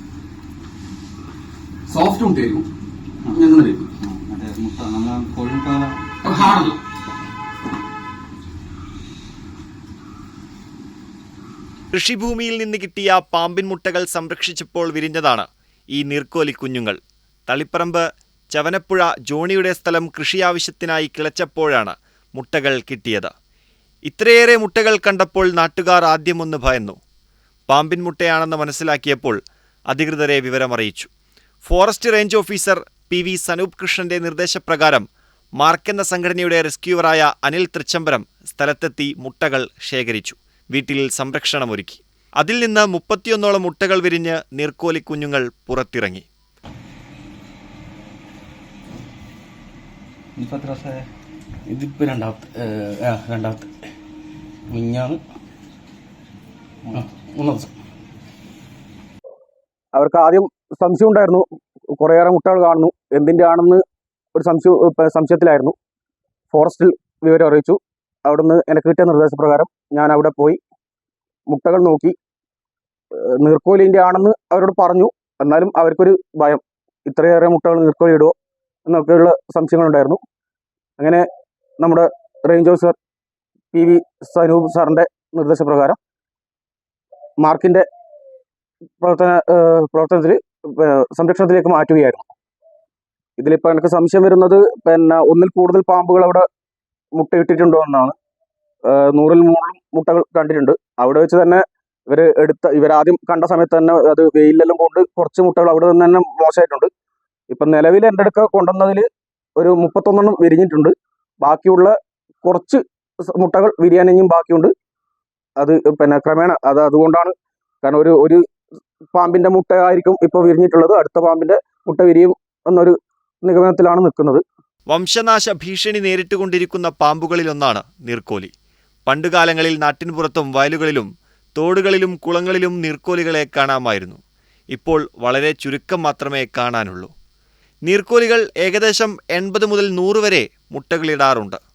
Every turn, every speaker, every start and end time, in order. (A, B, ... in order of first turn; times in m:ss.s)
0:01.9-0:02.6 A
0:03.3-0:03.9 A
0:04.0-0:06.6 B
0:06.3-0:06.8 A
0:11.9-0:23.3 C
0:24.1-0:27.0 C
0:27.7-0:31.1 C
0:31.6-0:35.0 C
0:35.6-0:46.2 C
0:50.4-0:51.1 B
0:51.7-0:53.7 B
0:54.7-0:55.2 B
0:56.9-0:57.7 B
0:59.9-1:03.8 A
1:04.3-1:05.8 A
1:06.5-1:10.6 A
1:11.5-1:12.2 A
1:13.2-1:18.3 A
1:18.9-1:20.2 A
1:21.0-1:21.2 A
1:21.8-1:23.0 A
1:23.7-1:26.0 A
1:27.4-1:27.9 A
1:29.0-1:32.3 A
1:33.4-1:36.4 A
1:37.2-1:38.2 A
1:38.9-1:46.9 A
1:47.5-1:54.7 A
1:55.6-1:58.4 A
1:59.1-2:04.4 A
2:04.9-2:08.5 C
2:09.1-2:17.1 C
2:17.8-2:21.6 C